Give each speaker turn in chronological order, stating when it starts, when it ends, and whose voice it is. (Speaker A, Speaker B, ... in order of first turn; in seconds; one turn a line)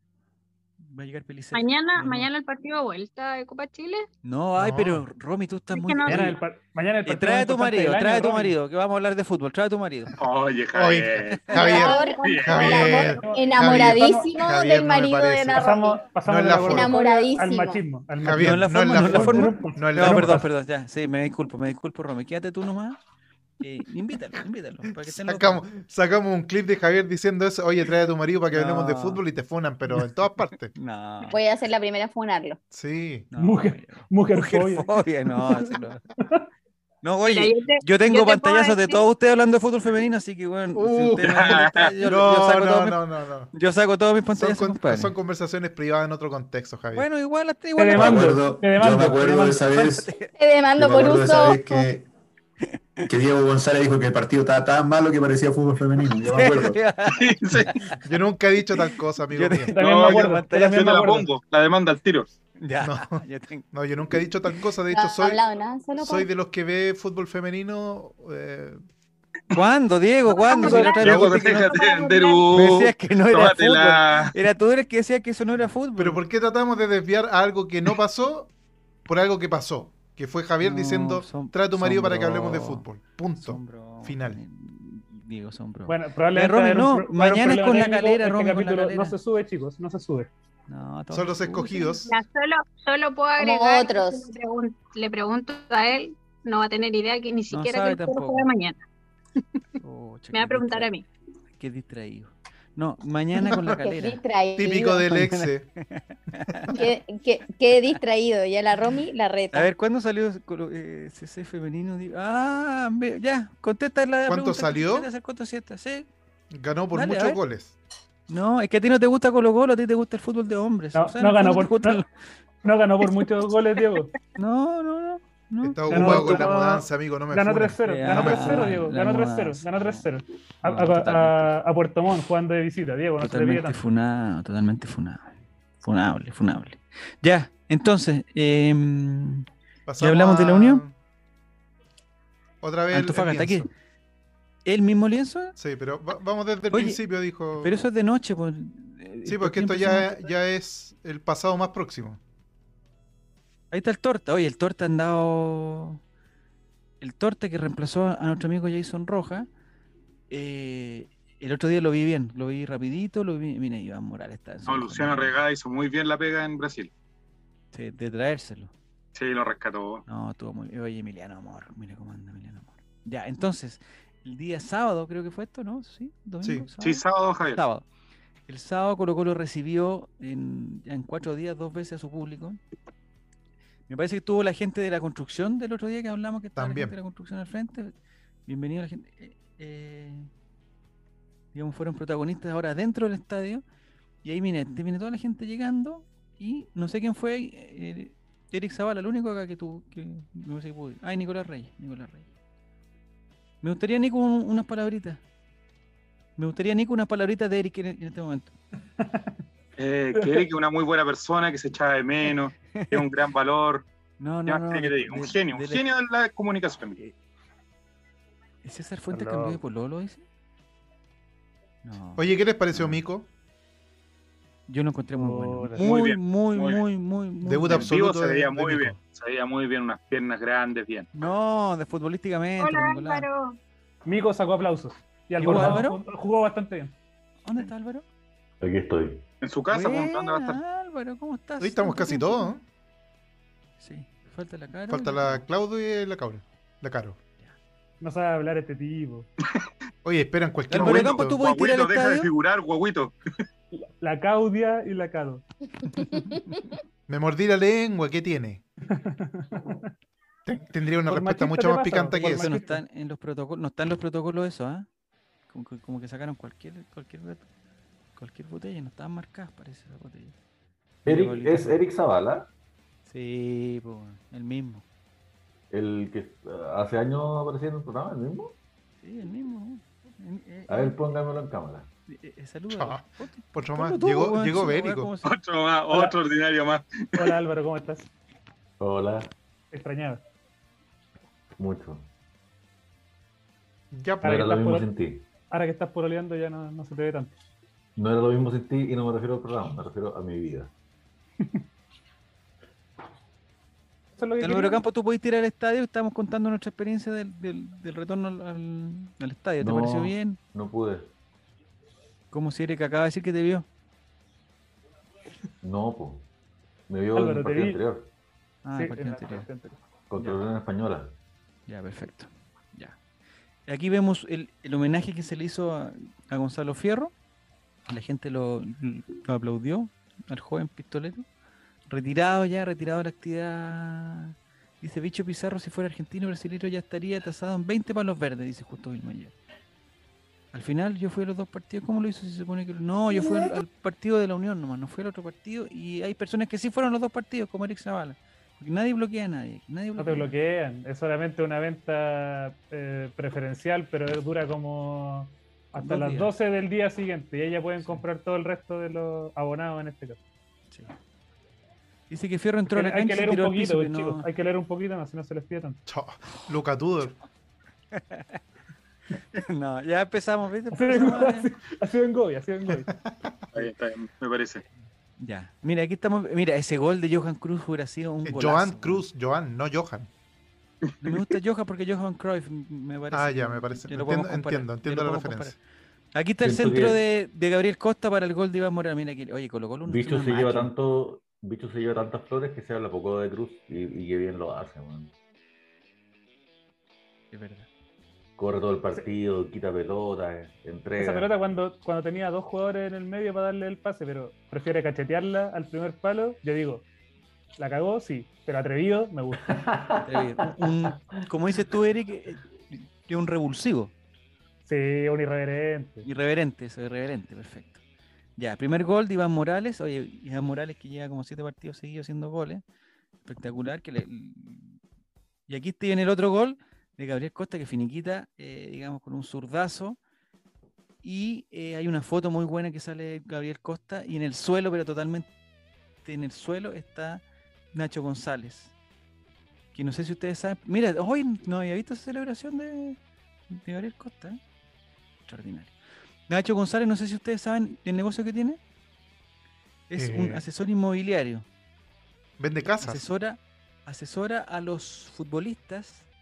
Speaker A: 0.8-2.3
Speaker B: 1.5-4.1
Speaker A: 4.2-6.4
Speaker C: 4.6-5.0
Speaker B: 5.7-6.3
Speaker D: 6.1-8.5
Speaker A: 7.0-10.1
Speaker E: 10.2-12.8
Speaker C: 10.7-16.9
Speaker A: 11.2-11.6
Speaker F: 11.6-16.1
Speaker B: 11.7-12.4
Speaker D: 12.6-14.1
Speaker D: 15.5-20.4
Speaker F: 16.6-17.8
Speaker C: 18.2-20.4
Speaker A: 18.4-23.0
Speaker A: 23.6-25.7
Speaker C: 25.0-30.7
Speaker A: 28.5-29.2
Speaker A: 30.7-31.4
Speaker F: 31.3-32.6
Speaker C: 32.7-33.3
Speaker A: 33.3-36.0
Speaker D: 33.4-34.9
Speaker A: 37.0-45.1
Speaker B: 37.2-39.0
Speaker C: 40.7-43.5
Speaker E: 41.2-41.9
Speaker C: 44.4-47.0
Speaker A: 46.9-48.2
Speaker D: 47.8-49.7
Speaker G: 47.9-50.1
Speaker A: 49.7-50.3
Speaker F: 50.4-51.9
Speaker G: 50.8-52.0
Speaker G: 53.1-56.8
Speaker A: 56.3-58.1
Speaker E: 57.1-57.7
Speaker C: 58.0-59.7
Speaker A: 58.7-61.0
Speaker D: 59.7-61.3
Speaker E: 59.8-62.3
Speaker A: 62.6-63.7
Speaker C: 62.8-65.4
Speaker F: 64.9-66.3
Speaker C: 66.0-68.8
Speaker A: 69.5-71.7
Speaker B: 70.3-72.5
Speaker E: 70.6-74.3
Speaker C: 71.0-71.4
Speaker A: 72.5-76.2
Speaker C: 76.0-78.5
Speaker C: 79.1-84.4
Speaker A: 80.6-82.8
Speaker A: 83.4-89.2
Speaker D: 85.9-90.3
Speaker A: 90.7-92.0
Speaker C: 91.1-92.1
Speaker B: 92.0-98.8
Speaker F: 93.4-94.3
Speaker A: 97.5-98.5
Speaker A: 99.8-100.9
Speaker B: 100.3-101.0
Speaker A: 101.6-104.2
Speaker C: 103.4-103.7
Speaker F: 103.9-105.1
Speaker C: 104.6-105.7
Speaker A: 105.1-106.7
Speaker C: 106.3-106.7
Speaker F: 106.7-109.7
Speaker A: 109.5-116.1
Speaker C: 114.3-115.1
Speaker C: 116.5-117.8
Speaker A: 116.9-117.4
Speaker A: 118.3-122.1
Speaker D: 120.9-122.0
Speaker D: 122.6-124.1
Speaker A: 124.3-126.5
Speaker C: 125.6-128.8
Speaker D: 125.9-133.8
Speaker A: 127.8-130.1
Speaker A: 130.6-131.5
Speaker A: 133.2-135.3
Speaker A: 135.8-139.4
Speaker C: 139.9-140.9
Speaker A: 140.0-140.8
Speaker C: 142.6-143.7
Speaker A: 142.9-143.7
Speaker A: 144.6-145.6
Speaker C: 145.6-147.8
Speaker A: 146.7-147.0
Speaker A: 147.5-150.3
Speaker C: 149.2-152.2
Speaker A: 153.7-156.0
Speaker A: 157.0-159.5
Speaker A: 160.3-165.4
Speaker E: 164.7-166.9
Speaker A: 167.7-168.7
Speaker E: 169.1-170.0
Speaker A: 170.1-177.8
Speaker C: 176.4-176.7
Speaker E: 176.8-177.6
Speaker A: 178.5-182.6
Speaker A: 183.9-187.9
Speaker C: 186.6-186.9
Speaker A: 188.4-190.3
Speaker A: 191.5-193.6
Speaker A: 194.2-202.3
Speaker A: 203.6-205.2
Speaker A: 206.4-208.5
Speaker E: 209.8-213.8
Speaker D: 210.2-210.4
Speaker A: 212.7-213.1
Speaker A: 214.2-215.8
Speaker E: 214.4-217.0
Speaker A: 218.6-220.2
Speaker D: 219.1-219.6
Speaker A: 221.8-223.0
Speaker C: 222.2-223.3
Speaker A: 224.7-227.9
Speaker D: 225.2-225.9
Speaker E: 225.8-226.8
Speaker C: 227.4-229.0
Speaker E: 227.7-231.1
Speaker A: 231.1-233.2
Speaker B: 232.6-233.6
Speaker D: 234.1-236.9
Speaker A: 235.4-236.0
Speaker A: 237.4-238.0
Speaker H: 238.6-239.2
Speaker E: 239.4-240.6
Speaker A: 239.7-242.5
Speaker C: 241.6-242.6
Speaker A: 243.8-245.4
Speaker C: 244.9-247.2
Speaker D: 248.0-249.3
Speaker C: 250.0-251.4
Speaker A: 250.7-252.3
Speaker E: 250.7-253.1
Speaker D: 253.7-255.4
Speaker A: 255.9-256.6
Speaker C: 257.1-258.6
Speaker D: 258.9-259.9
Speaker C: 260.4-262.5
Speaker D: 261.0-262.8
Speaker A: 262.1-264.9
Speaker A: 265.5-267.4
Speaker A: 268.1-270.3
Speaker A: 271.0-271.8
Speaker H: 271.0-272.5
Speaker A: 273.1-274.8
Speaker H: 275.7-278.5
Speaker A: 279.0-281.0
Speaker H: 280.7-281.9
Speaker A: 282.1-285.3
Speaker C: 282.7-285.1
Speaker E: 285.2-287.4
Speaker D: 287.2-288.1
Speaker H: 288.8-289.3
Speaker D: 289.7-290.2
Speaker H: 291.6-292.1
Speaker C: 293.9-294.2
Speaker D: 294.2-294.9
Speaker H: 294.2-295.3
Speaker D: 295.5-297.3
Speaker H: 297.9-300.7
Speaker D: 304.2-304.8
Speaker A: 304.4-310.4
Speaker H: 309.6-311.1
Speaker A: 312.3-313.7
Speaker H: 315.6-316.2
Speaker H: 316.9-318.1
Speaker D: 317.1-317.8
Speaker A: 318.6-319.5
Speaker D: 318.7-319.8
Speaker H: 320.1-321.1
Speaker A: 321.7-323.0
Speaker A: 323.7-327.1
Speaker A: 327.9-331.2
Speaker A: 331.9-339.4
Speaker A: 340.5-350.3
Speaker D: 349.9-360.2
Speaker A: 355.7-356.3
Speaker A: 357.8-358.0
Speaker A: 362.1-364.3
Speaker D: 362.7-365.8
Speaker C: 365.9-367.2
Speaker A: 367.9-368.4
Speaker A: 369.3-371.5
Speaker D: 370.7-372.9
Speaker C: 372.8-373.5
Speaker E: 373.5-374.6
Speaker A: 375.2-379.1
Speaker C: 378.2-380.1
Speaker E: 380.9-381.2
Speaker A: 381.0-385.6
Speaker C: 383.1-385.6
Speaker A: 386.1-390.7
Speaker H: 386.4-387.0
Speaker H: 389.9-395.1
Speaker A: 397.3-397.7
Speaker H: 398.4-401.3
Speaker D: 401.0-406.8
Speaker D: 407.6-409.6
Speaker H: 409.4-411.2
Speaker A: 410.0-413.9
Speaker D: 414.6-416.1
Speaker A: 416.0-417.8
Speaker A: 418.4-422.6
Speaker A: 423.2-424.8
Speaker A: 425.5-430.0
Speaker A: 431.0-435.3
Speaker A: 436.0-438.7
Speaker A: 439.7-443.0
Speaker A: 443.5-444.4
Speaker A: 445.2-445.7
Speaker A: 446.3-448.6
Speaker A: 449.9-451.4
Speaker C: 449.9-450.4
Speaker C: 452.4-453.0
Speaker A: 452.8-456.1